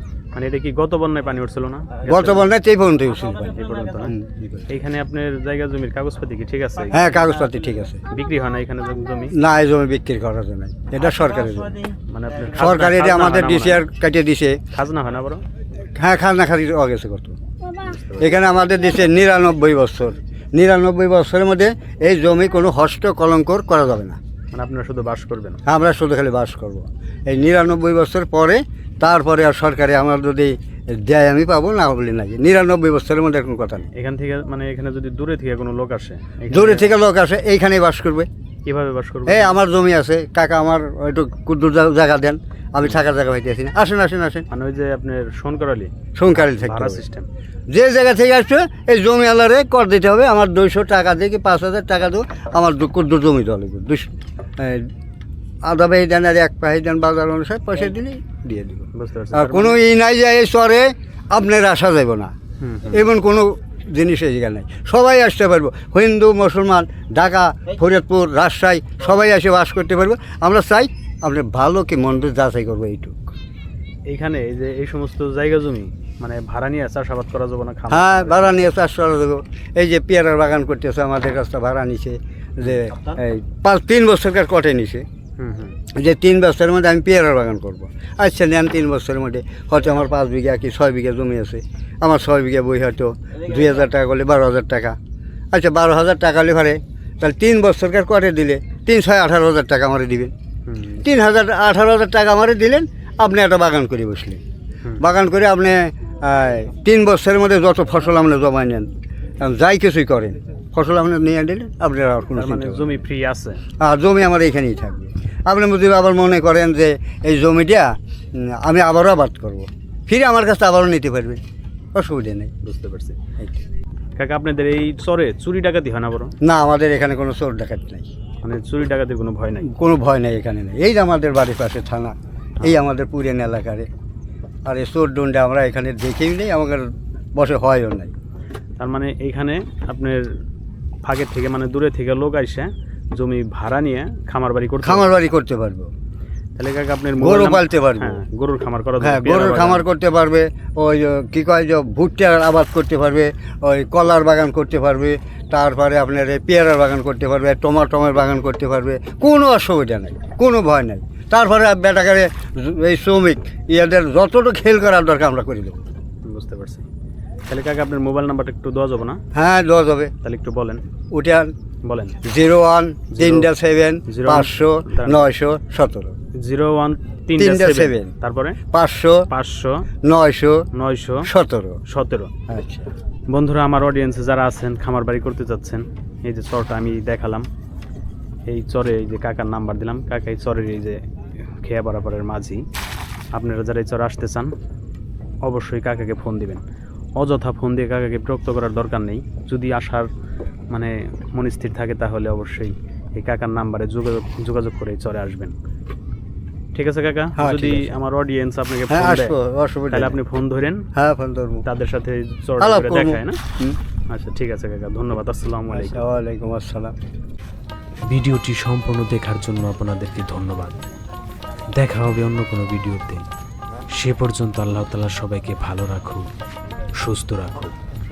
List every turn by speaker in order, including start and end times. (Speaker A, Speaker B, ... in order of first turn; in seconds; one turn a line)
Speaker A: 0.3-2.5
Speaker B: 2.0-4.7
Speaker A: 3.4-4.1
Speaker A: 4.7-7.0
Speaker B: 6.9-8.0
Speaker A: 8.1-9.3
Speaker B: 9.3-11.8
Speaker A: 12.1-13.9
Speaker B: 12.5-14.6
Speaker A: 14.7-15.4
Speaker B: 15.9-17.4
Speaker A: 17.7-18.3
Speaker B: 18.2-24.2
Speaker A: 24.5-25.6
Speaker B: 25.6-33.9
Speaker A: 34.0-36.9
Speaker B: 36.5-38.3
Speaker A: 38.6-39.5
Speaker B: 39.3-44.5
Speaker A: 44.5-47.3
Speaker B: 46.2-47.0
Speaker B: 47.7-54.9
Speaker B: 55.6-62.3
Speaker A: 58.9-59.8
Speaker A: 62.6-63.0
Speaker B: 62.9-73.2
Speaker A: 74.1-78.5
Speaker B: 77.9-85.0
Speaker A: 85.4-85.8
Speaker B: 85.9-95.0
Speaker B: 95.5-100.3
Speaker A: 100.7-101.0
Speaker B: 101.0-104.4
Speaker B: 105.0-108.9
Speaker B: 109.4-113.0
Speaker A: 112.3-113.6
Speaker B: 113.8-121.4
Speaker B: 121.9-122.5
Speaker A: 122.6-123.2
Speaker A: 124.2-126.3
Speaker B: 126.4-128.1
Speaker A: 128.4-129.7
Speaker B: 129.7-133.9
Speaker B: 134.7-138.1
Speaker A: 138.8-140.4
Speaker A: 141.0-145.1
Speaker B: 144.8-145.9
Speaker A: 146.6-149.8
Speaker B: 147.2-148.2
Speaker B: 149.0-165.8
Speaker A: 166.2-166.9
Speaker A: 167.5-169.2
Speaker B: 169.3-170.1
Speaker A: 170.2-170.8
Speaker B: 171.1-171.5
Speaker A: 171.8-172.2
Speaker B: 172.2-176.1
Speaker A: 173.1-173.5
Speaker A: 174.1-175.3
Speaker A: 176.4-178.6
Speaker B: 177.4-178.1
Speaker B: 178.7-179.2
Speaker A: 179.3-179.8
Speaker B: 180.0-180.6
Speaker A: 180.7-181.3
Speaker B: 181.2-181.8
Speaker A: 181.9-182.3
Speaker B: 182.5-182.9
Speaker A: 183.3-187.5
Speaker A: 188.5-192.6
Speaker A: 193.3-194.5
Speaker A: 195.4-196.6
Speaker A: 197.2-200.1
Speaker A: 200.7-205.5
Speaker A: 206.7-209.3
Speaker B: 207.4-207.9
Speaker B: 208.9-210.2
Speaker A: 209.9-210.8
Speaker B: 210.9-211.6
Speaker A: 211.6-213.4
Speaker B: 212.6-213.8
Speaker A: 214.1-216.0
Speaker B: 215.7-216.9
Speaker C: 218.1-220.8
Speaker C: 221.8-223.2
Speaker C: 223.9-226.2
Speaker C: 227.0-227.7